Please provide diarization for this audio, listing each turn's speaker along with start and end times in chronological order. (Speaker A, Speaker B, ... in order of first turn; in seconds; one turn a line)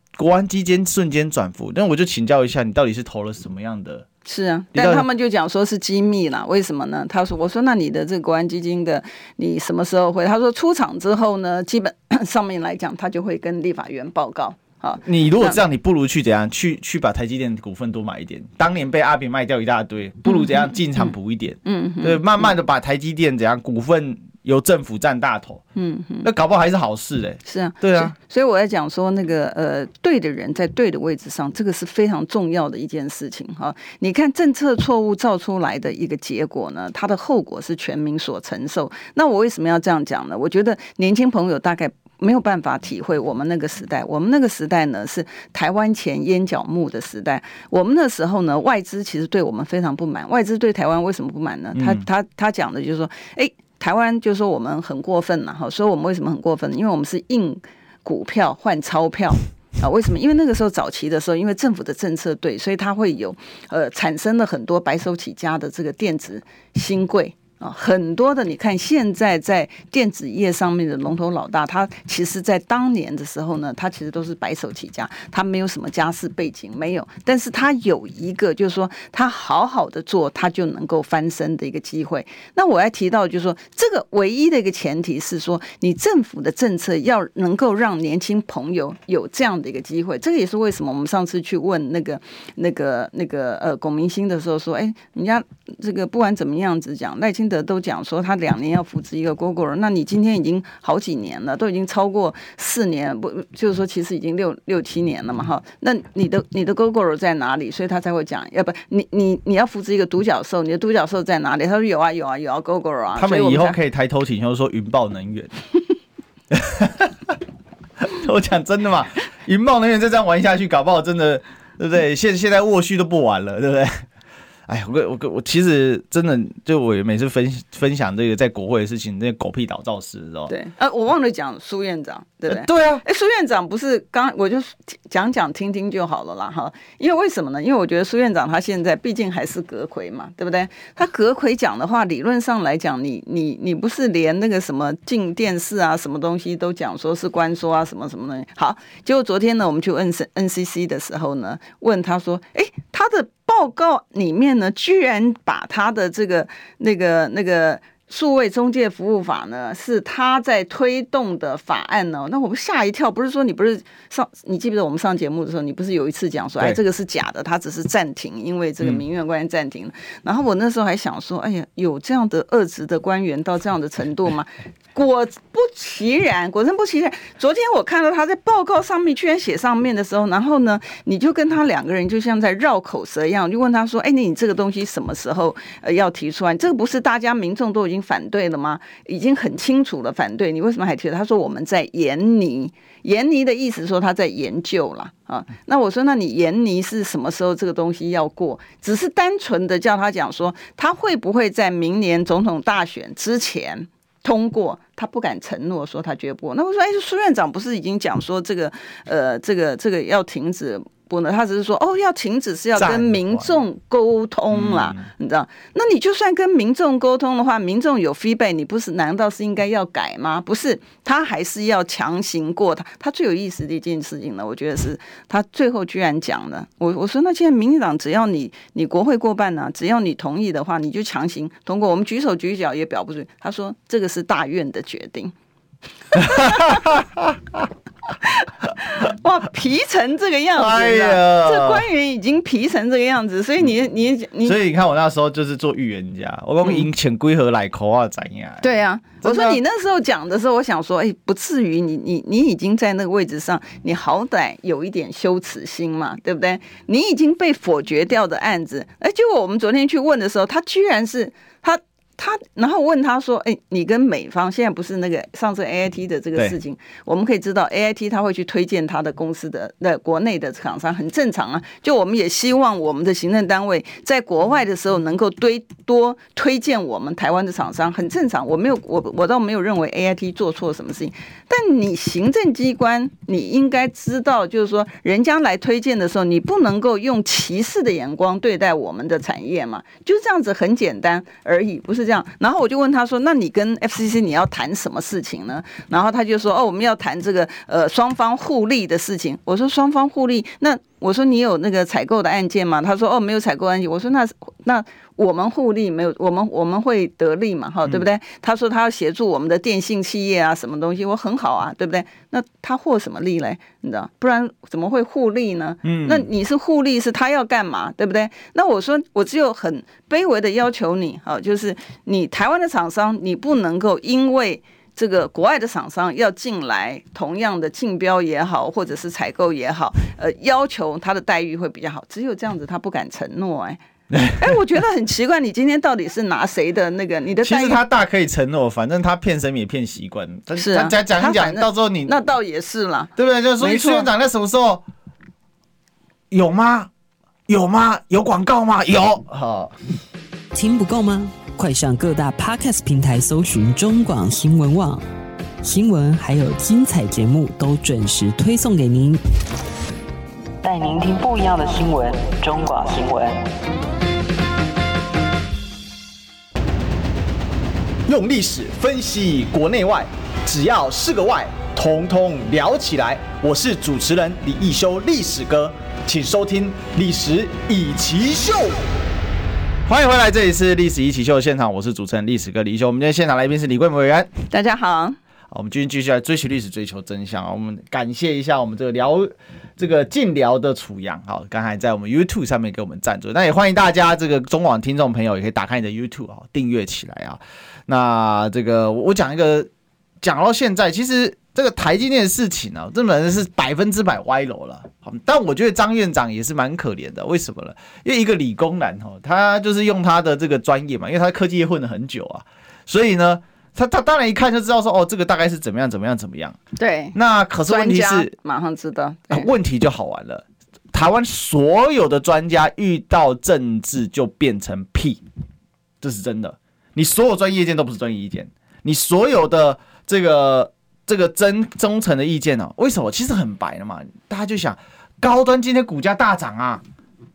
Speaker A: 0.2-4.1
Speaker B: 4.2-15.6
Speaker A: 4.7-5.0
Speaker A: 15.0-25.6
Speaker B: 20.2-21.1
Speaker B: 21.6-22.5
Speaker B: 25.8-26.3
Speaker A: 26.2-28.1
Speaker B: 27.4-113.8
Speaker A: 51.7-52.0
Speaker A: 113.2-115.5
Speaker A: 116.5-117.4
Speaker A: 118.0-124.0
Speaker A: 124.7-130.5
Speaker B: 130.5-235.3
Speaker A: 132.5-133.0
Speaker A: 212.8-213.5
Speaker A: 214.5-215.1
Speaker A: 236.1-237.7
Speaker B: 236.2-236.8
Speaker B: 238.2-244.6
Speaker A: 240.6-241.8
Speaker A: 244.4-248.7
Speaker B: 246.6-246.9
Speaker B: 248.6-337.8
Speaker A: 249.2-249.6
Speaker A: 315.8-316.3
Speaker A: 334.1-334.6
Speaker A: 337.4-342.1
Speaker B: 340.5-344.1
Speaker A: 343.2-344.8
Speaker A: 346.3-346.9
Speaker A: 347.5-349.7
Speaker C: 350.5-355.0
Speaker C: 355.6-359.2
Speaker C: 360.6-363.4
Speaker D: 368.1-378.8
Speaker A: 379.9-384.3
Speaker B: 384.5-385.1
Speaker A: 385.5-399.7
Speaker A: 400.2-416.6
Speaker B: 416.8-417.1
Speaker A: 417.1-418.3
Speaker B: 417.7-419.5
Speaker A: 419.3-425.2
Speaker A: 426.0-436.8